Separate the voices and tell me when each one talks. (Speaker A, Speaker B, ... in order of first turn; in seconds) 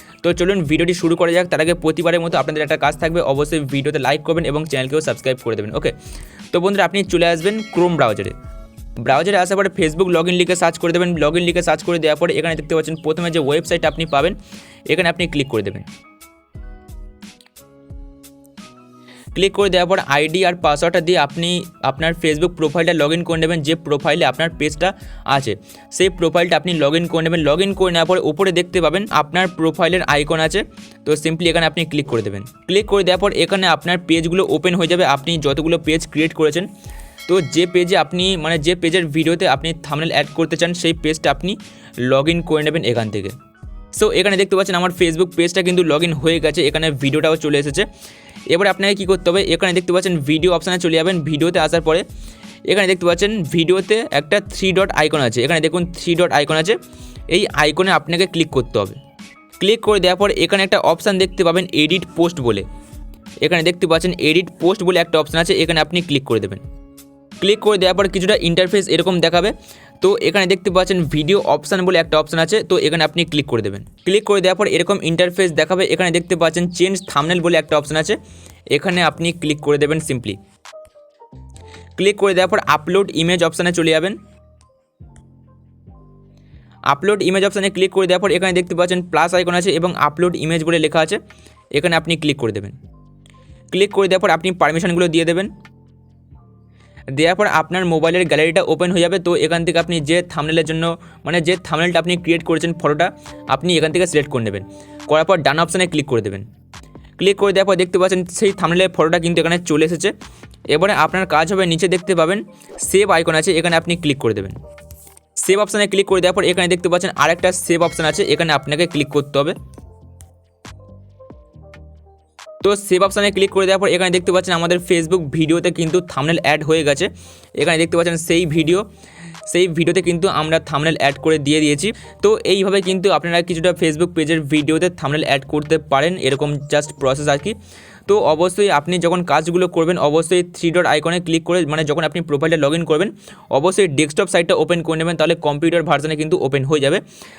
Speaker A: 0.2-6.0, 6.5-8.3, 9.0-14.4, 14.9-15.9, 19.4-36.7, 37.3-43.4, 43.9-47.9, 48.5-52.0, 52.7-56.8, 57.3-59.0, 59.6-62.6, 63.4-66.6, 67.4-78.2, 78.7-80.4, 82.0-84.2, 86.9-91.2, 91.7-92.8, 93.7-95.5, 97.1-106.5, 107.2-110.1, 110.7-114.6, 115.4-119.5, 122.6-128.8, 129.5-137.6, 138.1-147.0